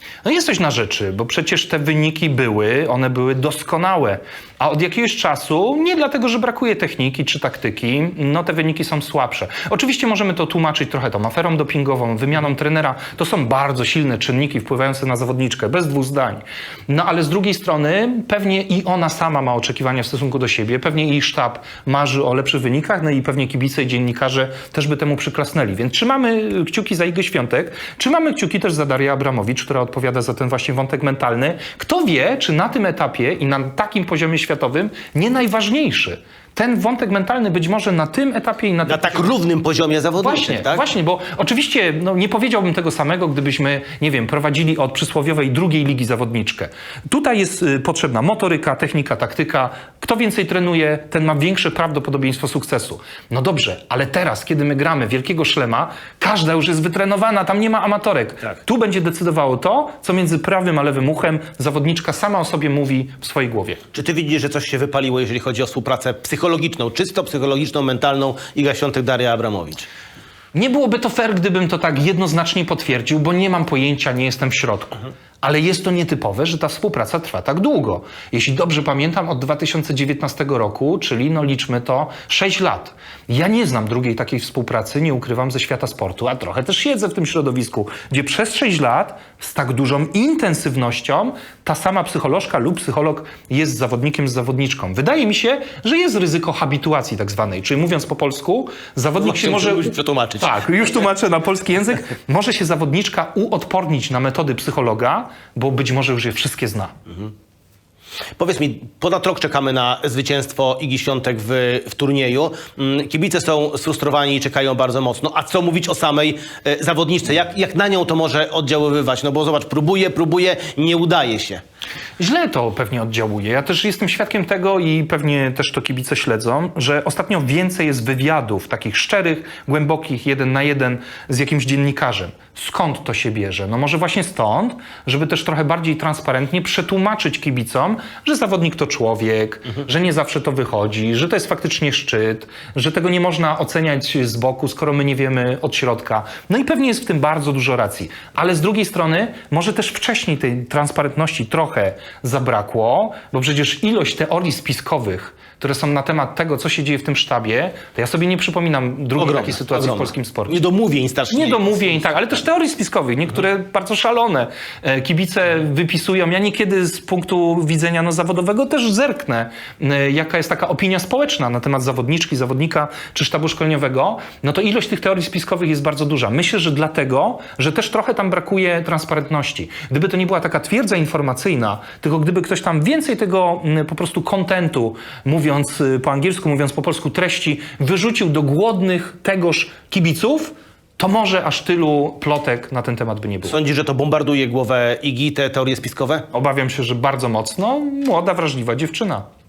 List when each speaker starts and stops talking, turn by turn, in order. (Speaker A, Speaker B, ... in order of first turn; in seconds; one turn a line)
Speaker A: 0.2-39.3
Speaker B: 38.9-40.8
Speaker A: 40.2-63.8
Speaker B: 63.9-69.9
Speaker A: 70.5-106.9
Speaker B: 99.2-100.8
Speaker B: 108.4-121.6
Speaker A: 122.2-160.6
Speaker B: 159.2-161.9
Speaker A: 161.3-193.6
Speaker B: 193.4-196.2
Speaker A: 196.3-199.2